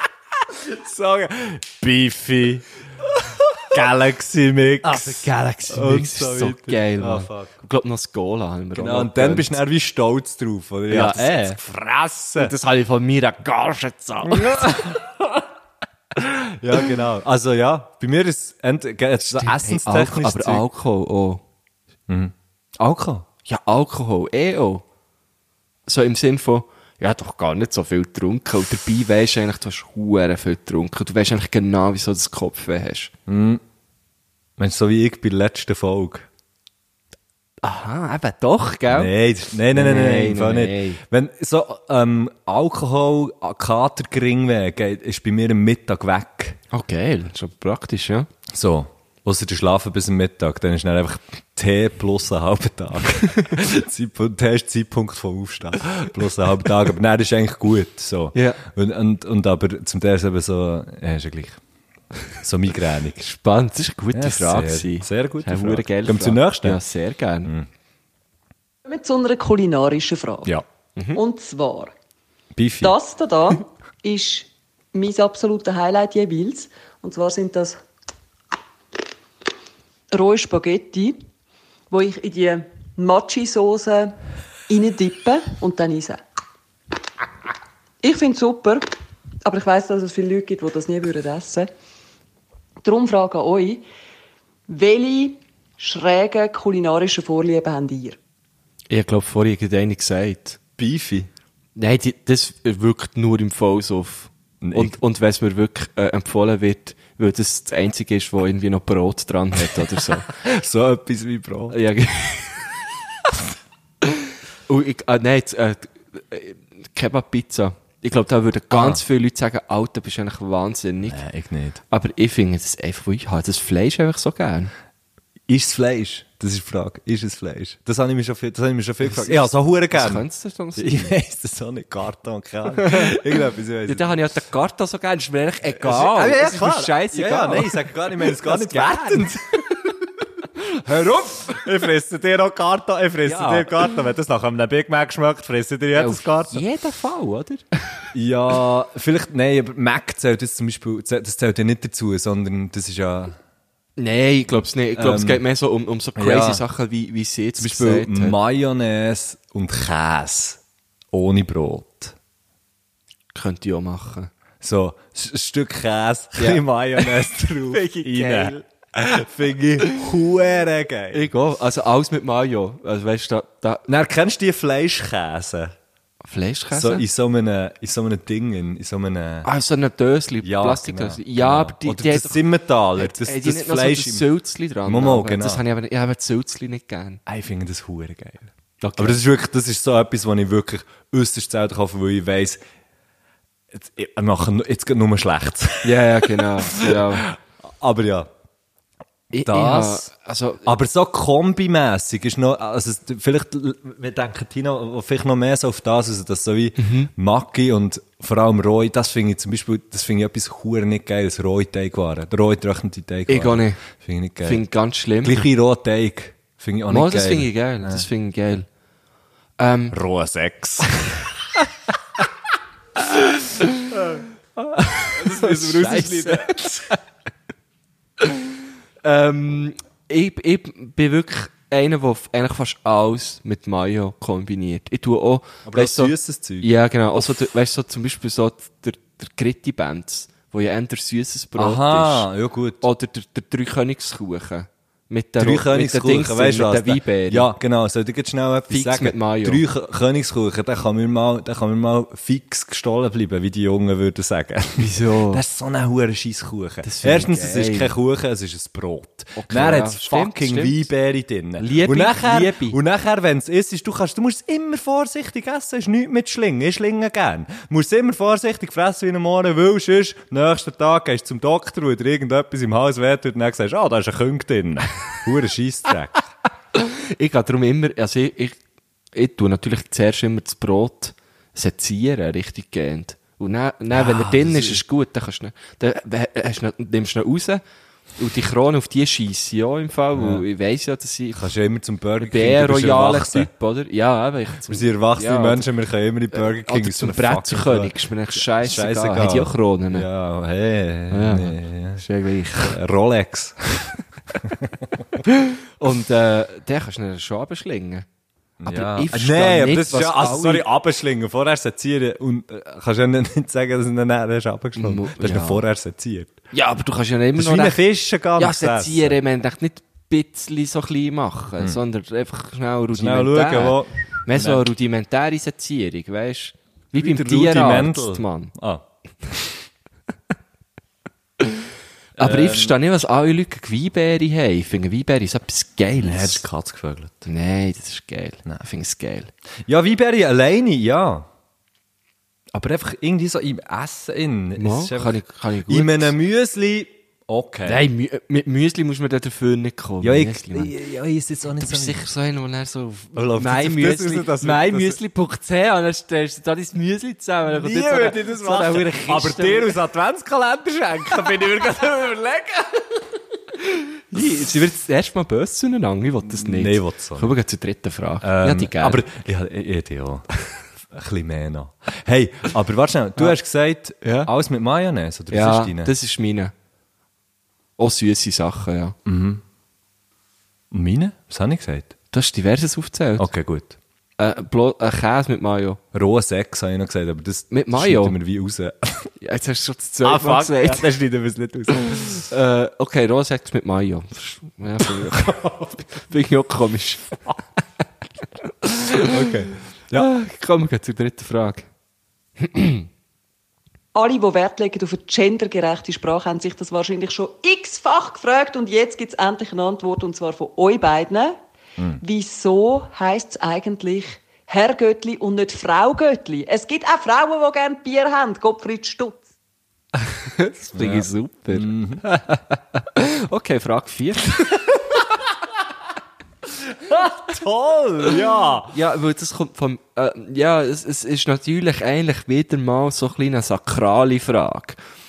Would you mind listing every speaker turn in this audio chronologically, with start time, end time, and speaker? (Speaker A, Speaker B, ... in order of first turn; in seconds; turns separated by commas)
Speaker A: 0.4-2.7, Speaker A: 3.6-7.5, Speaker B: 4.8-9.6, Speaker A: 8.8-12.5, Speaker B: 10.9-11.6, Speaker B: 12.4-14.9, Speaker A: 14.2-15.4, Speaker A: 16.1-20.6, Speaker B: 19.3-21.4, Speaker A: 22.1-23.3, Speaker B: 23.4-24.8, Speaker B: 25.9-33.1, Speaker A: 33.3-33.6, Speaker A: 34.6-36.3, Speaker B: 37.6-39.1, Speaker A: 38.9-46.6, Speaker B: 39.7-41.0, Speaker B: 46.7-48.3, Speaker A: 48.5-61.6, Speaker B: 58.4-58.6, Speaker A: 62.4-63.2, Speaker B: 63.2-67.5, Speaker A: 64.1-66.8, Speaker C: 68.8-70.5, Speaker C: 71.2-71.9, Speaker A: 72.5-73.0, Speaker C: 72.8-77.8, Speaker C: 80.1-81.2, Speaker C: 81.9-84.2, Speaker C: 84.7-86.2, Speaker C: 88.0-88.9, Speaker C: 89.4-91.7, Speaker C: 92.8-93.8, Speaker C: 94.7-98.2, Speaker B: 98.9-100.6, Speaker A: 100.8-101.3, Speaker B: 101.8-110.3, Speaker A: 104.6-105.0, Speaker A: 110.3-111.8, Speaker B: 111.7-112.7, Speaker B: 114.7-121.2, Speaker A: 118.7-119.0, Speaker A: 121.1-121.8, Speaker B: 121.9-124.7, Speaker A: 125.5-134.2, Speaker B: 129.0-131.2, Speaker B: 132.8-133.2, Speaker B: 133.9-139.3, Speaker A: 135.7-139.9, Speaker B: 140.7-141.7, Speaker A: 140.9-146.6, Speaker B: 143.2-143.9, Speaker B: 145.9-147.6, Speaker A: 148.1-153.4, Speaker B: 154.0-158.4, Speaker A: 155.0-155.4, Speaker A: 156.2-156.6, Speaker A: 157.6-160.6, Speaker A: 161.1-162.2, Speaker B: 163.3-164.3, Speaker A: 164.6-171.3, Speaker B: 166.4-167.2, Speaker B: 167.7-168.7, Speaker B: 171.1-173.9, Speaker A: 173.9-175.8, Speaker B: 176.2-177.1, Speaker A: 176.7-179.5, Speaker B: 179.4-182.4, Speaker A: 180.4-184.3, Speaker B: 182.9-187.2, Speaker A: 184.8-185.6, Speaker A: 187.3-192.6, Speaker B: 188.8-189.2, Speaker A: 193.7-198.3, Speaker B: 195.8-197.3, Speaker B: 199.3-200.8, Speaker A: 199.4-200.1, Speaker A: 200.6-214.7, Speaker B: 206.8-207.1, Speaker B: 213.3-213.8, Speaker B: 214.4-215.4, Speaker A: 215.2-218.1, Speaker B: 216.9-218.7, Speaker B: 219.6-220.0, Speaker A: 219.9-221.2, Speaker A: 223.9-224.2, Speaker B: 224.8-226.6, Speaker A: 224.9-226.9, Speaker B: 229.0-242.3, Speaker A: 235.7-236.7, Speaker A: 241.6-242.8, Speaker B: 242.8-247.5, Speaker A: 245.4-276.2, Speaker B: 248.7-249.6, Speaker B: 254.8-255.4, Speaker B: 256.8-257.9, Speaker B: 259.4-260.9, Speaker B: 261.6-262.8, Speaker B: 276.8-278.6, Speaker B: 279.1-287.6, Speaker A: 283.9-284.8, Speaker B: 288.2-291.5, Speaker A: 290.1-290.4, Speaker A: 291.3-293.5, Speaker B: 292.2-295.7, Speaker A: 294.7-302.0, Speaker B: 296.3-300.1, Speaker B: 301.1-302.8, Speaker A: 302.6-305.2, Speaker B: 305.3-308.1, Speaker A: 308.6-316.4, Speaker B: 308.7-310.7, Speaker B: 314.8-315.6, Speaker B: 316.5-317.8, Speaker A: 317.4-319.2, Speaker B: 318.4-328.5, Speaker A: 322.9-324.6, Speaker A: 326.9-329.5, Speaker B: 331.4-336.4, Speaker A: 332.2-332.8, Speaker A: 336.0-337.2, Speaker B: 337.2-339.3, Speaker A: 339.7-341.3, Speaker A: 342.5-347.9, Speaker B: 344.6-346.2, Speaker B: 347.7-350.8, Speaker A: 350.0-352.0, Speaker B: 351.6-359.8, Speaker A: 353.1-355.0, Speaker A: 357.5-362.9, Speaker B: 364.1-369.0, Speaker A: 366.2-367.3, Speaker A: 368.2-370.3, Speaker A: 370.9-375.9, Speaker B: 374.0-374.3, Speaker B: 375.3-376.5, Speaker B: 377.8-379.0, Speaker A: 379.1-379.4, Speaker A: 380.7-381.9, Speaker B: 382.1-383.3, Speaker A: 383.2-383.8, Speaker B: 384.2-385.8, Speaker A: 385.9-389.1, Speaker B: 387.5-388.2, Speaker B: 389.2-390.9, Speaker A: 390.0-392.3, Speaker B: 392.1-397.4, Speaker A: 395.1-395.7, Speaker B: 398.6-399.3, Speaker A: 399.0-400.1, Speaker B: 399.9-401.7, Speaker B: 402.4-402.9, Speaker C: 403.9-411.4, Speaker C: 412.0-419.2, Speaker B: 420.0-424.8, Speaker A: 420.7-422.1, Speaker A: 426.5-428.8, Speaker B: 428.7-434.8